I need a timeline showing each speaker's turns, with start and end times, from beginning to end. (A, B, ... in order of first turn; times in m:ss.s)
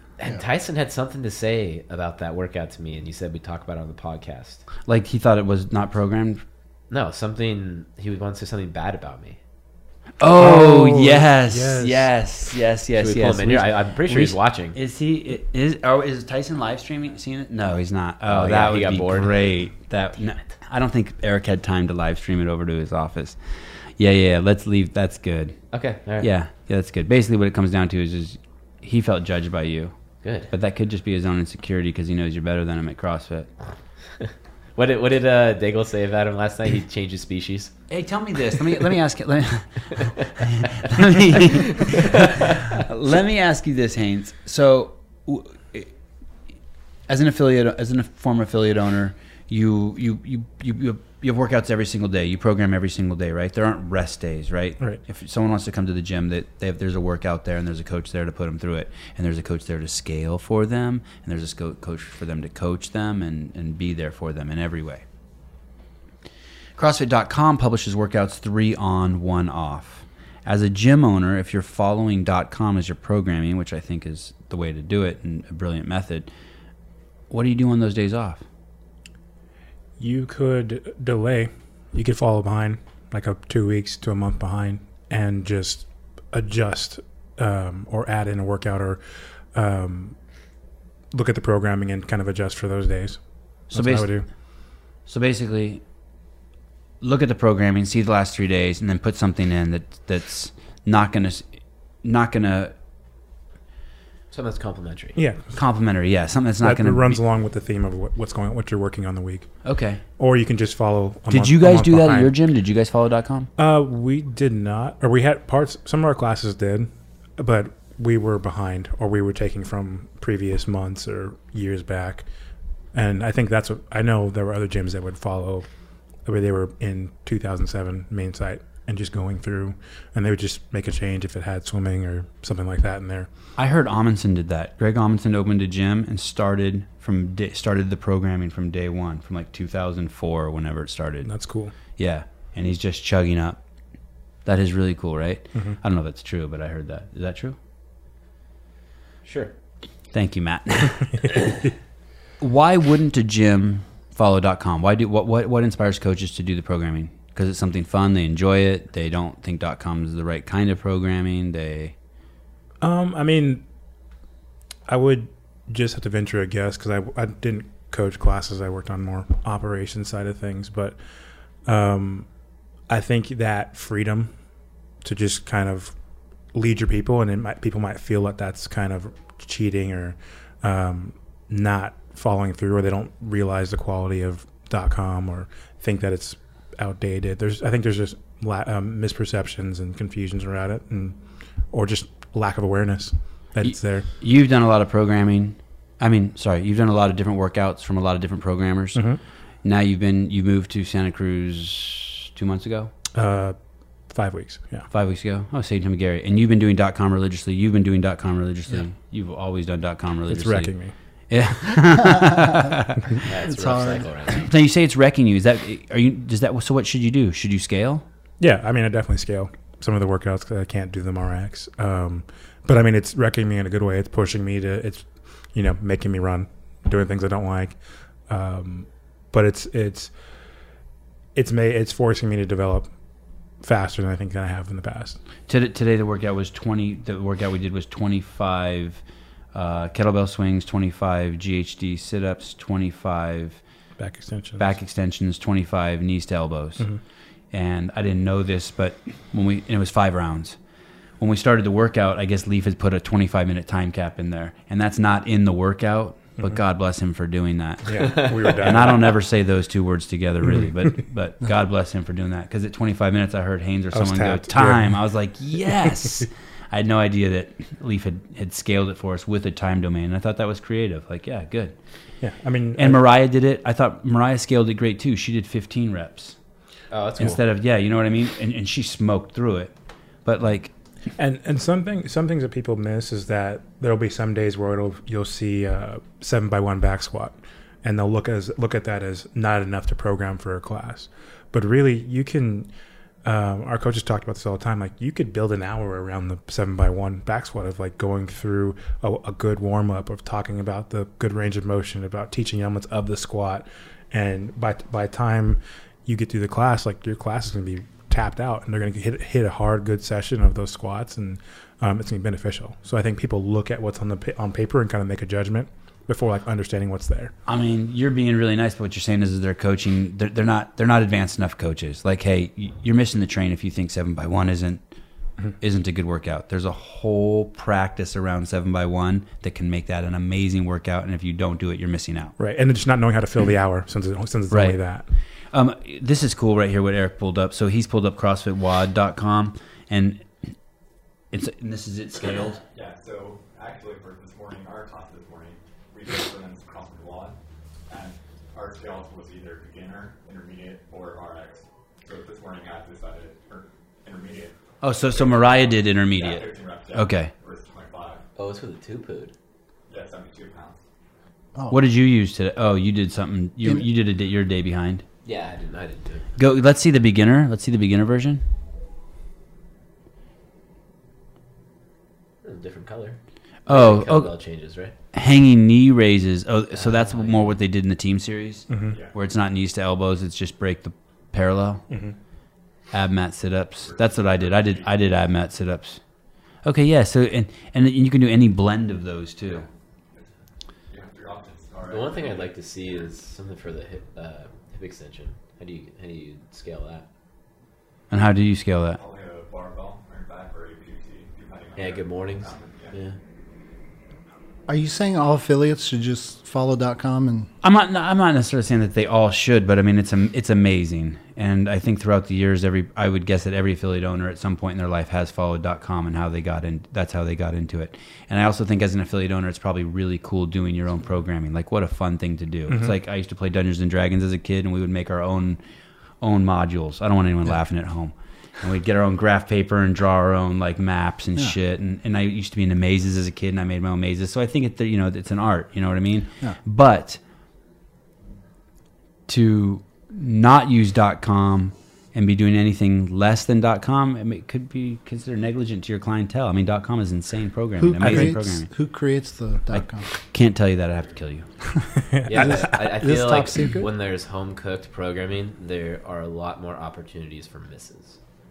0:00.2-0:04.6 A
0:04.9-0:06.4 B
0:06.9-0:09.4 A
0:10.2-0:25.6 B
0:10.4-0:12.1 C
0:13.0-0:14.8 A
0:18.2-0:19.3 A
0:25.7-0:26.3 A
0:26.2-0:29.9 B
0:30.2-0:30.5 A
0:30.5-0:33.5 B
0:34.8-0:37.7 A
0:37.9-0:45.9 B
0:41.8-0:42.5 A
0:47.1-1:05.0 B
1:06.8-1:16.3 B
1:17.3-1:18.4 B
1:20.0-1:29.0 C
1:29.5-1:30.2 C
1:31.1-1:34.2 C
1:33.7-1:34.1 B
1:35.0-1:35.8 B
1:37.0-1:41.5 B
1:42.0-1:42.7 B
1:44.3-1:45.2 A
1:45.2-1:45.5 C
1:45.5-1:47.2 B
1:46.6-1:49.5 C
1:49.6-1:50.0 B
1:50.2-1:52.3 C
1:51.3-1:53.5 B
1:53.6-2:02.3 C
2:02.9-2:05.7 C
2:06.2-2:13.3 C
2:13.6-2:21.3 B
2:21.2-2:21.7 C
2:22.0-2:23.6 B
2:24.4-2:27.6 B
2:29.2-2:29.5 A
2:30.1-2:31.2 B
2:32.4-2:41.9 B
2:42.8-2:43.6 C
2:44.9-2:51.0 C
2:51.6-2:52.3 C
2:52.9-2:54.3 C
2:55.0-2:55.9 C
2:56.5-3:14.1 C
3:13.6-3:19.0 B
3:18.9-3:19.2 C
3:19.6-3:22.9 B
3:23.1-3:23.6 C
3:24.1-3:24.9 C
3:24.9-3:30.7 B
3:30.3-3:30.9 C
3:31.3-3:33.2 B
3:31.9-3:32.7 D
3:33.2-3:34.5 A
3:33.4-3:34.0 D
3:34.3-3:38.0 B
3:38.4-3:50.1 C
3:51.3-3:52.9 C
3:53.6-3:55.2 C
3:55.5-3:59.0 B
3:59.5-4:03.6 B
4:04.0-4:04.7 C
4:04.6-4:06.9 B
4:07.5-4:10.6 B
4:11.2-4:31.7 B
4:17.8-4:19.1 C
4:18.0-4:18.6 A
4:23.9-4:25.0 C
4:32.2-4:33.0 C
4:32.8-4:36.4 B
4:36.9-4:37.4 A
4:37.2-4:39.7 B
4:40.2-4:40.7 B
4:41.2-4:52.7 C
4:53.2-5:17.3 C
5:17.4-5:24.8 B
5:25.6-5:32.3 B
5:32.4-5:35.0 C
5:34.5-5:34.8 B
5:35.5-5:40.3 B
5:41.3-5:42.6 B
5:42.7-5:47.4 E
5:47.9-5:54.6 E
5:54.8-5:57.3 B
5:55.1-5:58.2 E
5:58.4-5:59.3 A
5:59.9-6:00.8 E
6:01.5-6:01.8 D
6:01.7-6:05.0 B
6:05.2-6:06.2 A
6:06.4-6:08.4 B
6:12.4-6:14.9 A
6:13.7-6:14.3 B
6:15.1-6:21.8 B
6:16.8-6:17.5 A
6:18.7-6:19.0 C
6:21.9-6:22.2 C
6:22.9-6:26.0 B
6:23.8-6:24.9 E
6:26.6-6:29.7 B
6:30.9-6:33.1 E
6:31.9-6:37.0 A
6:38.1-6:39.0 B
6:39.0-6:43.0 E
6:41.8-6:43.2 A
6:44.7-6:47.5 D
6:47.6-7:05.6 B
7:06.2-7:17.2 B
7:19.3-7:28.7 B
7:27.8-7:30.1 D
7:28.0-7:28.3 C
7:29.7-7:31.5 B
7:32.1-7:32.7 C
7:32.2-7:38.2 A
7:32.3-7:33.9 D